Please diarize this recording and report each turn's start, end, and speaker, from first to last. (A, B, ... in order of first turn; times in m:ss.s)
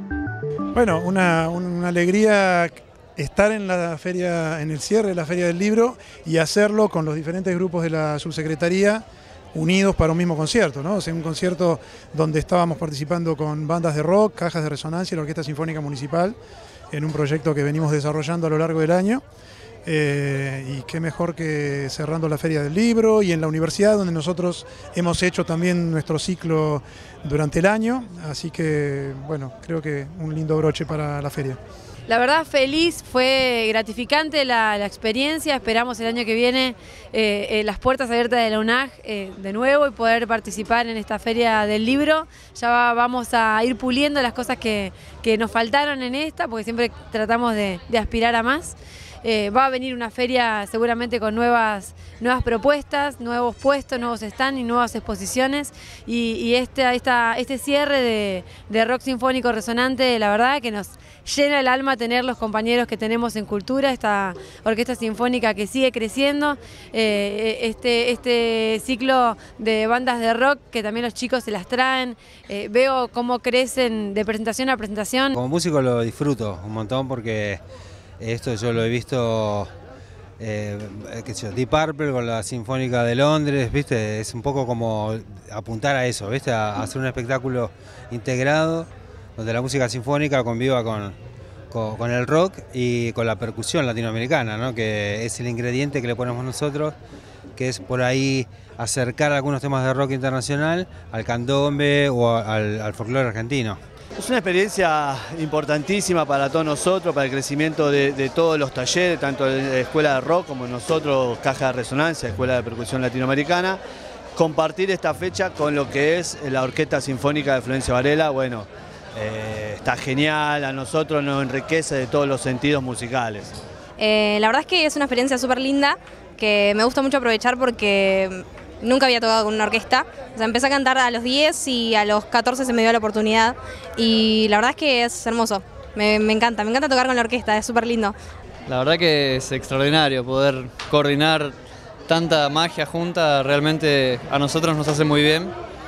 0:00.8-0:16.4 A
0:16.9-0:19.2 A
0:19.9-0:31.6 A
0:32.1-1:15.4 B
1:15.3-1:17.6 C
1:18.2-1:19.7 C
1:20.4-1:31.2 C
1:31.7-1:37.0 C
1:37.6-1:43.8 C
1:44.2-1:53.8 D
1:54.4-2:03.6 D
2:04.0-2:18.2 E
2:18.7-2:21.6 F
2:22.1-2:25.5 F